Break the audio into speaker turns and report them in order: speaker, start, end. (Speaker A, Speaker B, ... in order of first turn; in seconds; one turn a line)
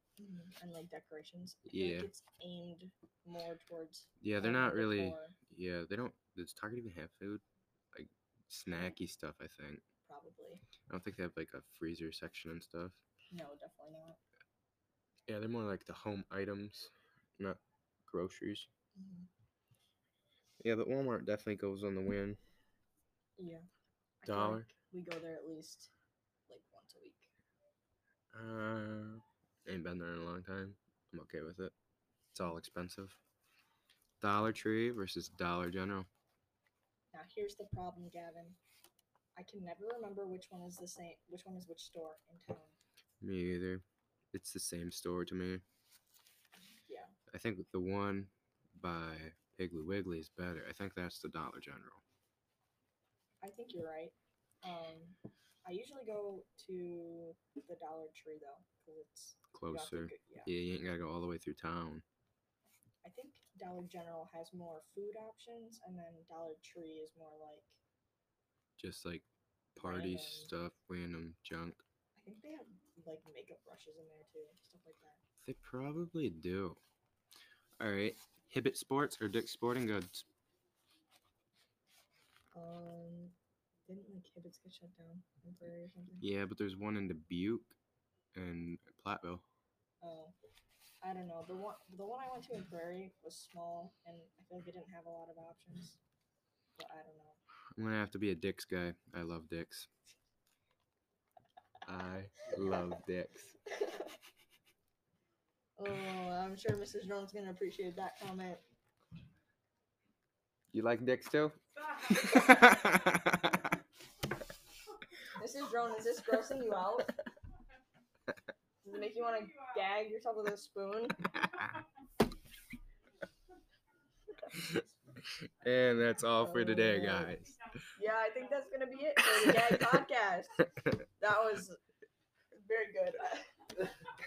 Speaker A: 0.2-5.3
Speaker B: 1.6-2.1
Speaker B: 4.2-9.8
Speaker A: 8.7-9.0
Speaker A: 10.1-10.6
Speaker B: 10.9-13.0
Speaker A: 13.3-14.2
Speaker B: 15.3-18.7
Speaker A: 18.9-19.3
Speaker B: 20.6-22.4
Speaker A: 23.4-23.6
Speaker A: 24.2-25.9
Speaker B: 24.2-24.7
Speaker A: 26.5-27.3
Speaker B: 28.3-31.7
Speaker B: 32.3-33.2
Speaker B: 34.2-36.1
Speaker A: 37.1-38.6
Speaker A: 39.4-42.8
Speaker B: 43.2-45.6
Speaker A: 46.7-47.1
Speaker B: 47.3-52.0
Speaker A: 53.4-60.5
Speaker B: 59.5-62.0
Speaker A: 63.0-67.8
Speaker B: 68.8-71.8
Speaker A: 69.8-70.5
Speaker A: 72.2-75.2
Speaker B: 75.4-76.8
Speaker B: 77.8-80.3
Speaker A: 82.5-83.3
Speaker A: 83.8-86.2
Speaker B: 86.2-87.8
Speaker B: 88.3-89.4
Speaker A: 90.0-90.3
Speaker A: 91.0-96.0
Speaker A: 96.8-97.4
Speaker B: 97.8-99.9
Speaker B: 101.8-103.5
Speaker A: 105.8-108.6
Speaker B: 110.7-113.6
Speaker A: 115.3-117.2
Speaker A: 118.8-121.3
Speaker B: 124.5-127.7
Speaker A: 126.4-127.3
Speaker A: 127.9-131.8
Speaker B: 129.2-130.0
Speaker A: 132.5-133.6